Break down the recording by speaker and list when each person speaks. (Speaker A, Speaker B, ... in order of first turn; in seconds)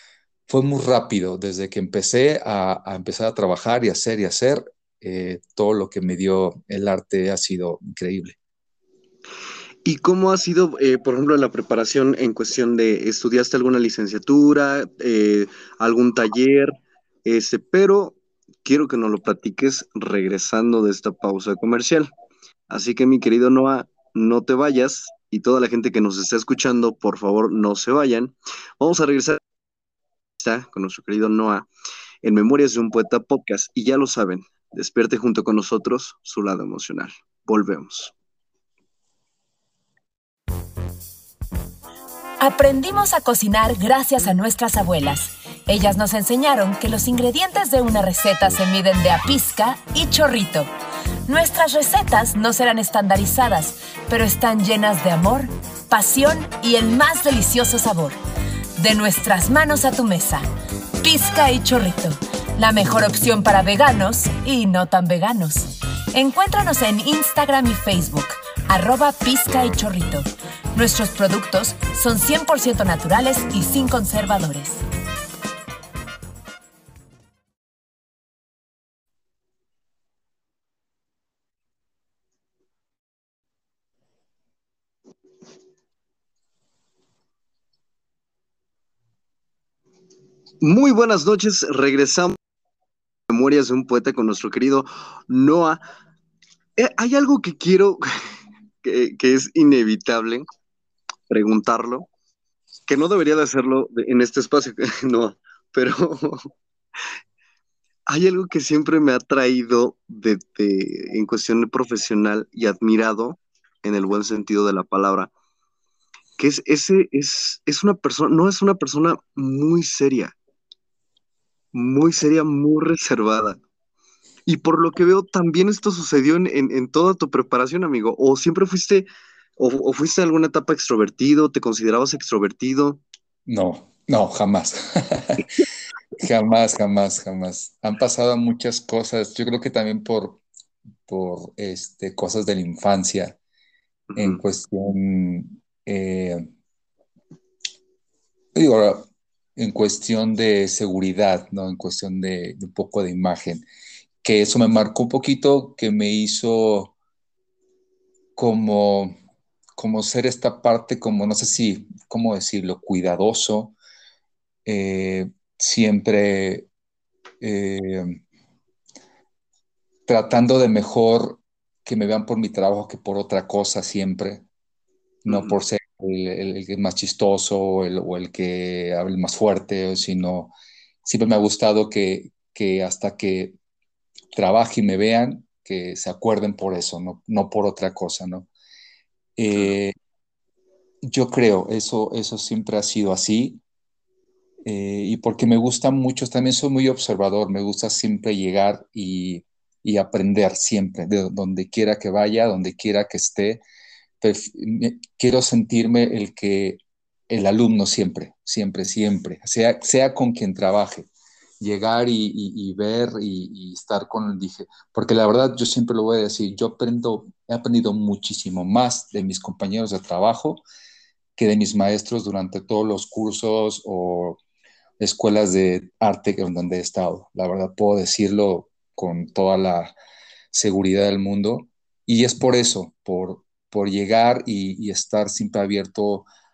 Speaker A: 0.5-8.4, 133.5-135.5, 136.2-140.4, 141.1-143.4, 144.2-146.5, 148.6-153.7, 154.2-156.9, 158.4-159.2, 159.8-163.8, 164.7-166.7, 167.4-168.2, 170.1-174.5, 175.2-180.5, 181.0-183.6, 184.3-188.5, 189.4-189.9, 191.1-193.6, 194.7-203.6, 204.2-206.8, 207.3-211.1, 211.6-220.6, 221.4-224.4, 225.0-229.9, 230.5-236.3
Speaker B: 9.8-16.7, 17.2-22.1, 22.7-29.4, 30.4-31.7, 32.2-38.1, 90.6-92.4, 93.3-95.8, 96.8-98.1, 98.8-100.5, 101.3-102.1, 102.9-106.5, 108.1-115.3, 116.4-120.3, 121.7-123.6, 124.5-129.1, 129.6-133.0, 144.1-144.4, 175.3-175.6
Speaker C: 42.4-50.7, 51.3-58.2, 58.8-60.5, 61.0-74.8